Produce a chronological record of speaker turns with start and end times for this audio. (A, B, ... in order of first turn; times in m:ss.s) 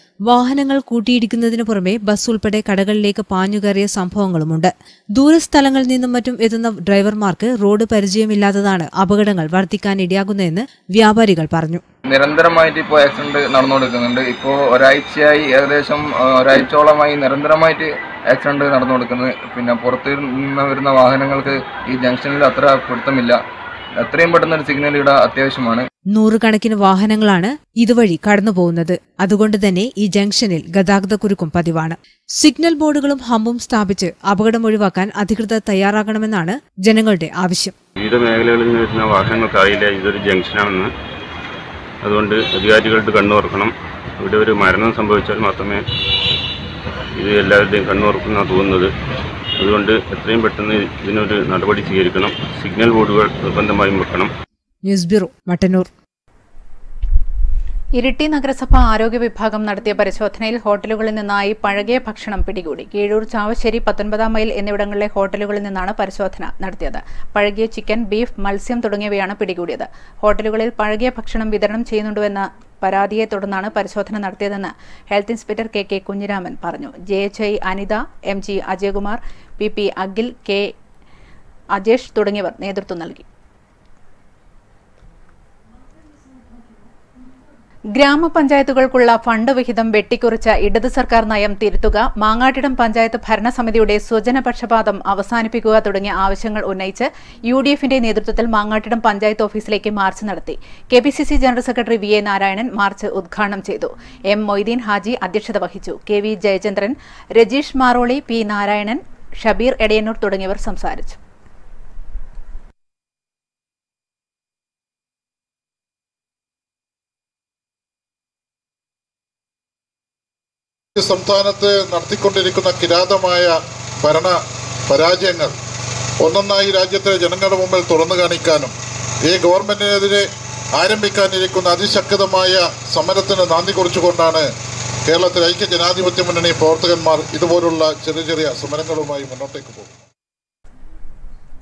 0:00.3-0:11.8 A
0:12.1-0:23.4 B
0:24.0-0:25.8 B
0:26.1-0:37.7 A
0:38.0-0:40.9 C
0:42.0-0:45.8 C
0:47.2-0:48.9 C
0:49.6-0:54.3 C
0:54.8-0:55.9 A
0:58.0-1:20.7 D
1:21.7-1:23.2 D
1:28.0-1:51.2 D
2:01.0-2:03.5 E
2:04.0-2:04.3 E
2:04.9-2:05.5 E
2:06.2-2:08.7 E
2:09.3-2:10.2 E
2:10.8-2:14.4 E
2:15.1-2:19.9 E